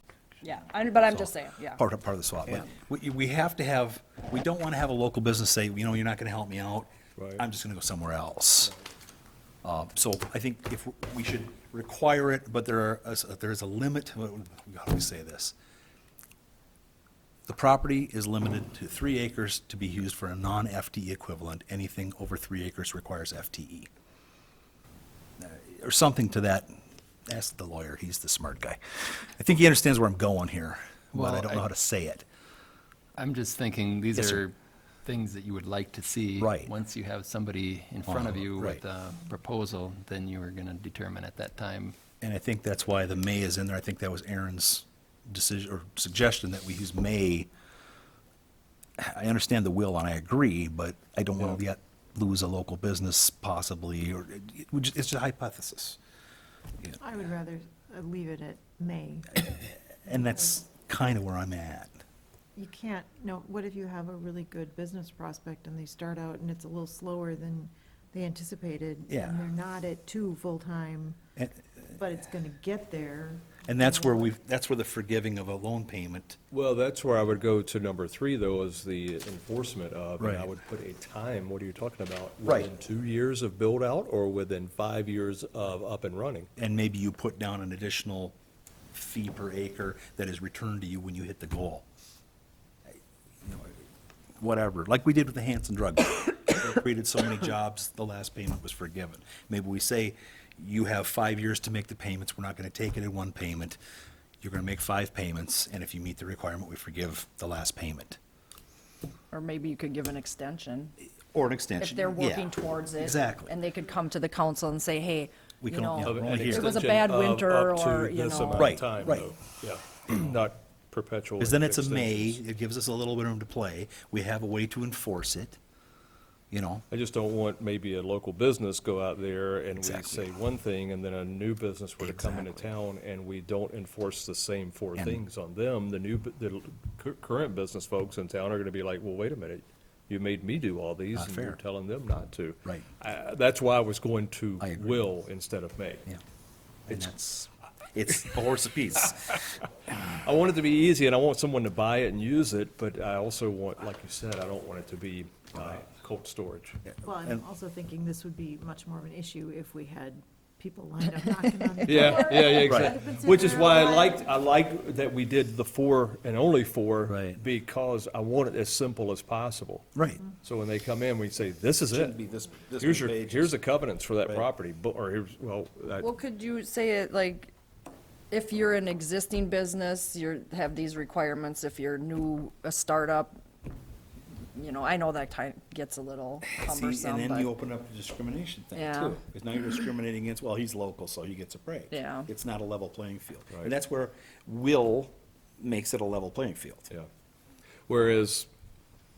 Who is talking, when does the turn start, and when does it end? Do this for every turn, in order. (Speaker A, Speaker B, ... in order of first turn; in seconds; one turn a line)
Speaker A: 0.4-1.8
Speaker B: 1.1-8.7
Speaker C: 7.2-7.4
Speaker B: 9.6-15.5
Speaker B: 17.5-23.9
Speaker B: 25.4-26.7
Speaker B: 27.3-32.2
Speaker D: 31.1-31.7
Speaker D: 33.2-42.0
Speaker B: 34.1-34.4
Speaker B: 36.4-36.7
Speaker B: 38.0-38.8
Speaker B: 42.2-47.5
Speaker B: 49.0-56.0
Speaker E: 57.0-59.4
Speaker B: 59.4-62.0
Speaker E: 62.5-71.2
Speaker B: 69.1-69.4
Speaker B: 71.4-71.8
Speaker E: 72.0-74.3
Speaker B: 73.6-76.4
Speaker C: 76.5-86.5
Speaker B: 80.2-80.5
Speaker B: 82.4-82.7
Speaker B: 86.6-88.3
Speaker B: 88.9-91.8
Speaker B: 93.4-93.8
Speaker B: 94.4-103.8
Speaker B: 104.4-108.2
Speaker A: 109.3-110.9
Speaker B: 111.3-113.5
Speaker A: 111.8-118.8
Speaker B: 115.6-116.7
Speaker C: 116.0-122.4
Speaker B: 118.5-119.3
Speaker B: 121.4-125.6
Speaker B: 126.5-126.8
Speaker C: 126.9-146.1
Speaker B: 129.8-130.3
Speaker B: 132.0-132.7
Speaker B: 134.9-135.2
Speaker B: 141.1-141.6
Speaker B: 144.6-145.0
Speaker B: 146.9-149.6
Speaker C: 150.1-156.8
Speaker B: 156.8-157.4
Speaker E: 157.0-164.3
Speaker C: 161.8-172.2
Speaker B: 162.6-162.9
Speaker B: 167.1-167.4
Speaker B: 169.9-170.2
Speaker B: 171.9-173.6
Speaker C: 172.8-176.1
Speaker A: 176.0-177.5
Speaker A: 178.3-183.4
Speaker A: 184.5-187.5
Speaker B: 186.5-196.9
Speaker A: 188.7-189.2
Speaker A: 191.9-192.3
Speaker C: 197.9-198.5